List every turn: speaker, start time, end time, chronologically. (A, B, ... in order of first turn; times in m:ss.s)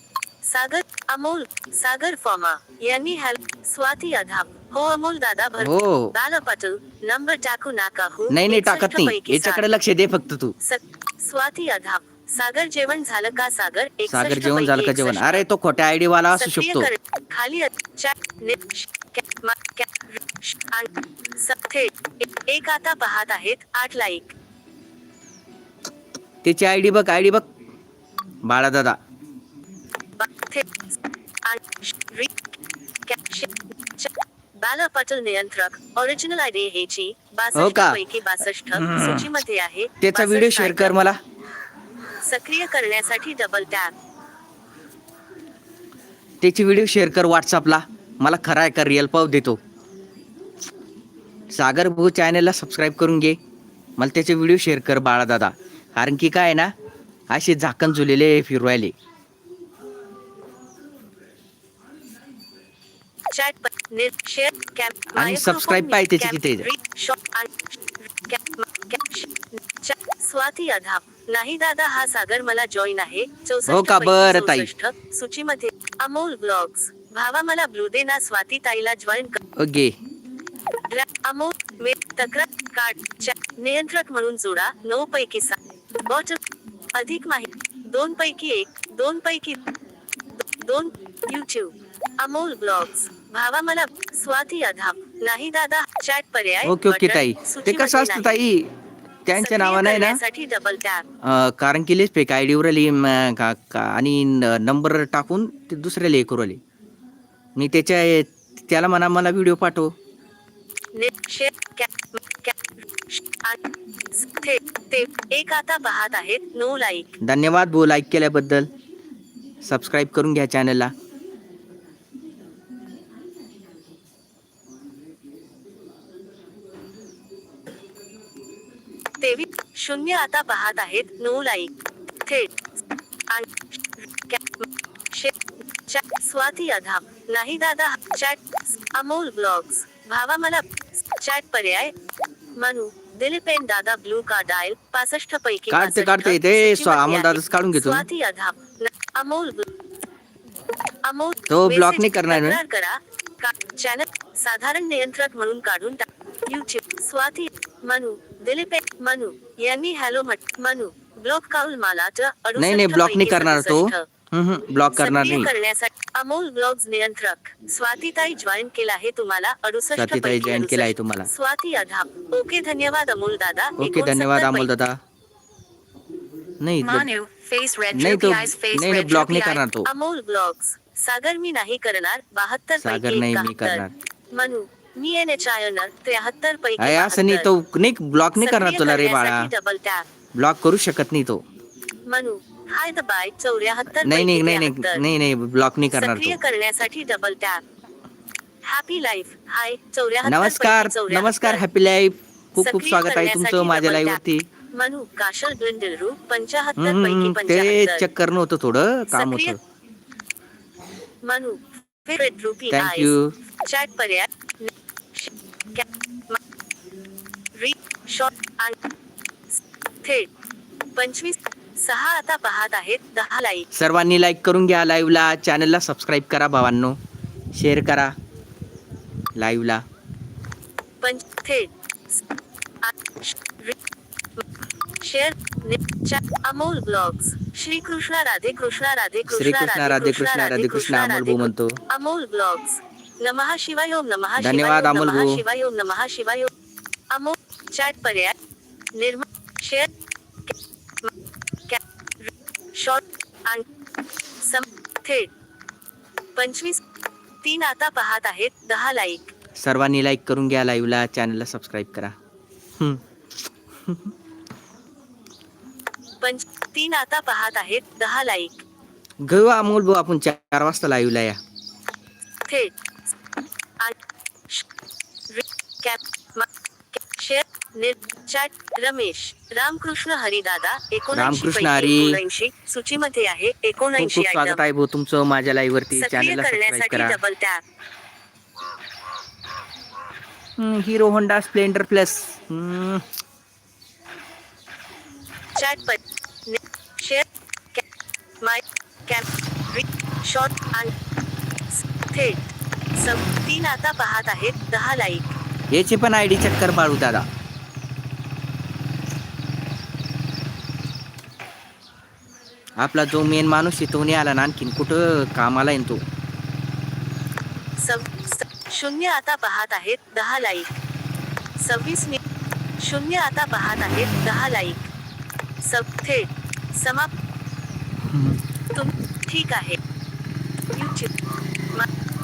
0:00.4-0:09.6 A
0:05.6-0:06.1 B
0:08.3-0:10.5 B
0:10.6-0:15.4 A
0:14.1-0:16.9 B
0:16.3-0:24.4 A
0:26.4-0:27.4 B
0:28.4-0:29.0 B
0:30.2-0:30.8 A
0:31.4-0:32.3 A
0:33.0-0:41.0 A
0:37.5-0:38.0 B
0:38.7-0:39.3 B
0:40.0-0:41.2 B
0:42.2-0:43.9 A
0:46.4-0:49.6 B
0:51.5-0:53.4 B
0:54.0-0:56.7 B
0:57.3-0:58.9 B
1:03.3-1:19.4 A
1:05.1-1:06.7 B
1:13.6-1:14.7 B
1:19.6-1:20.0 B
1:20.8-1:26.4 A
1:26.9-1:29.6 A
1:30.4-1:38.3 A
1:36.6-1:38.7 B
1:39.2-1:40.2 B
1:39.3-1:41.0 A
1:41.2-1:46.6 B
1:47.6-1:49.9 B
1:50.9-1:53.6 A
1:54.1-1:57.2 A
1:57.2-1:58.7 B
1:59.6-2:00.9 B
2:09.2-2:12.5 A
2:13.3-2:21.9 A
2:22.6-2:29.7 A
2:25.7-2:28.0 B
2:31.0-2:44.1 A
2:31.5-2:32.6 B
2:42.6-2:45.5 B
2:44.9-2:54.7 A
2:49.9-2:51.3 B
2:53.8-2:55.0 B
2:56.6-2:57.1 B
2:56.8-2:59.6 C
2:57.9-2:59.9 B
2:59.8-3:07.5 A
3:02.8-3:03.9 B
3:06.8-3:09.5 B
3:08.4-3:10.0 A
3:10.3-3:11.4 B
3:12.0-3:15.0 A
3:14.0-3:16.4 B
3:15.9-3:17.6 A
3:18.6-3:21.6 A
3:20.2-3:24.4 B
3:22.6-3:24.2 A
3:24.7-3:28.0 A
3:26.8-3:29.6 B
3:29.1-3:29.6 A
3:31.2-3:36.4 A
3:32.7-3:33.3 B
3:37.5-3:38.8 A
3:39.5-3:40.3 A
3:40.9-3:43.7 A
3:43.7-3:47.0 B
3:47.5-3:48.1 B
3:49.4-3:49.8 B
3:51.0-3:52.2 A
3:52.8-3:53.8 A
3:55.0-4:06.5 A
3:59.3-4:01.8 B
4:04.4-4:05.4 B
4:07.1-4:08.4 A
4:08.9-4:09.9 A
4:11.6-4:13.6 A
4:14.4-4:15.3 A
4:16.4-4:16.8 A
4:17.4-4:19.3 A
4:19.6-4:22.2 B
4:22.8-4:23.0 B
4:23.7-4:24.1 B
4:26.2-4:28.6 A
4:29.2-4:31.4 B
4:32.4-4:32.7 A
4:35.3-4:44.6 A
4:41.1-4:42.2 B
4:44.0-4:47.2 B
4:45.9-4:47.6 A
4:50.6-4:53.0 B
4:55.5-4:57.8 A
4:58.4-5:00.9 A
5:01.7-5:05.4 A
5:05.7-5:07.2 B
5:12.8-5:16.0 B
5:17.8-5:20.7 A
5:21.6-5:22.2 A
5:22.8-5:24.9 A
5:25.6-5:27.1 A
5:28.0-5:28.4 B
5:28.7-5:29.8 A
5:30.7-5:31.2 A